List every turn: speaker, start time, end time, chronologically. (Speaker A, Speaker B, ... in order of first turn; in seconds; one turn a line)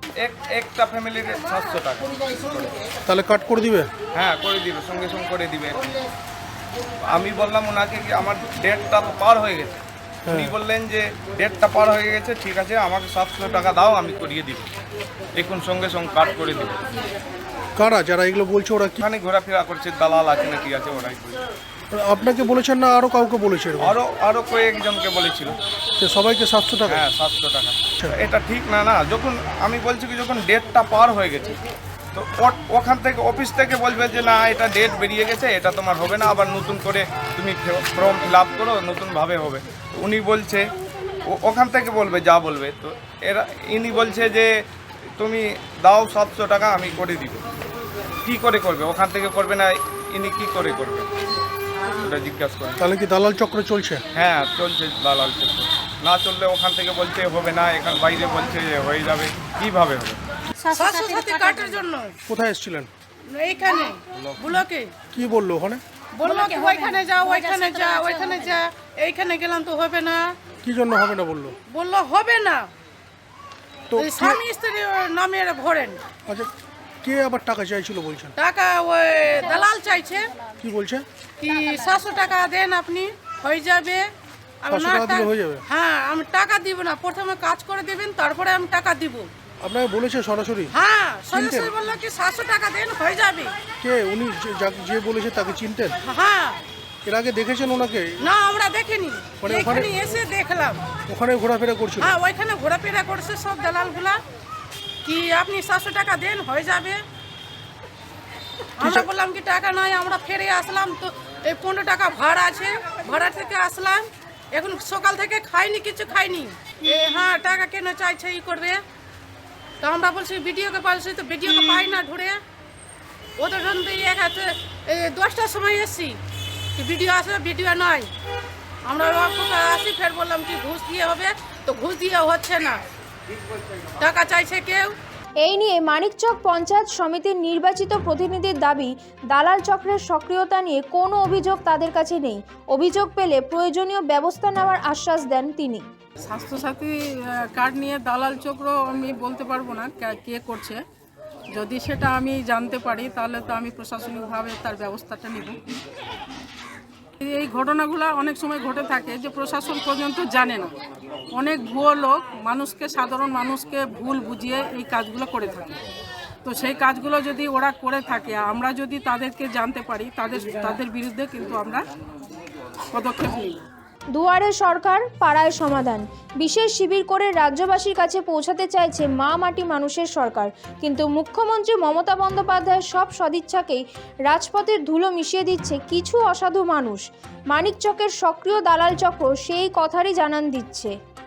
Speaker A: 0.2-2.7
Speaker B: 3.0-3.9
Speaker A: 4.1-5.9
Speaker A: 7.1-9.8
Speaker B: 10.3-10.5
Speaker A: 10.3-14.7
Speaker A: 15.3-16.8
Speaker B: 17.8-19.0
Speaker A: 19.0-21.4
Speaker B: 21.9-23.9
Speaker A: 23.8-25.6
Speaker B: 26.0-27.0
Speaker A: 26.9-31.6
Speaker A: 32.1-40.6
Speaker A: 41.2-44.5
Speaker A: 45.2-47.4
Speaker A: 48.2-51.1
Speaker A: 51.9-52.8
Speaker B: 52.8-54.0
Speaker A: 54.1-60.2
Speaker C: 60.7-62.1
Speaker B: 62.3-62.9
Speaker C: 63.3-64.9
Speaker B: 65.1-65.8
Speaker C: 66.2-70.2
Speaker B: 70.6-71.5
Speaker C: 71.7-72.6
Speaker B: 73.9-74.4
Speaker C: 74.0-76.0
Speaker B: 77.0-78.3
Speaker C: 78.4-80.2
Speaker B: 80.6-81.0
Speaker C: 81.4-84.1
Speaker C: 84.6-89.3
Speaker B: 84.7-85.6
Speaker B: 89.6-90.7
Speaker C: 90.8-93.5
Speaker B: 91.3-91.7
Speaker B: 93.8-96.0
Speaker C: 96.0-96.6
Speaker B: 97.0-98.1
Speaker C: 98.2-100.8
Speaker B: 99.4-99.9
Speaker B: 101.1-102.1
Speaker C: 102.0-104.2
Speaker C: 105.0-107.0
Speaker B: 108.8-109.1
Speaker C: 108.8-118.8
Speaker C: 119.8-122.4
Speaker C: 123.4-126.2
Speaker C: 126.8-128.1
Speaker C: 128.8-132.8
Speaker C: 134.0-134.9
Speaker D: 135.4-145.8
Speaker E: 146.2-147.0
Speaker E: 147.5-150.8
Speaker E: 151.5-155.6
Speaker E: 157.2-160.7
Speaker E: 161.3-165.8
Speaker E: 166.4-171.8
Speaker E: 172.9-173.6
Speaker D: 174.1-190.9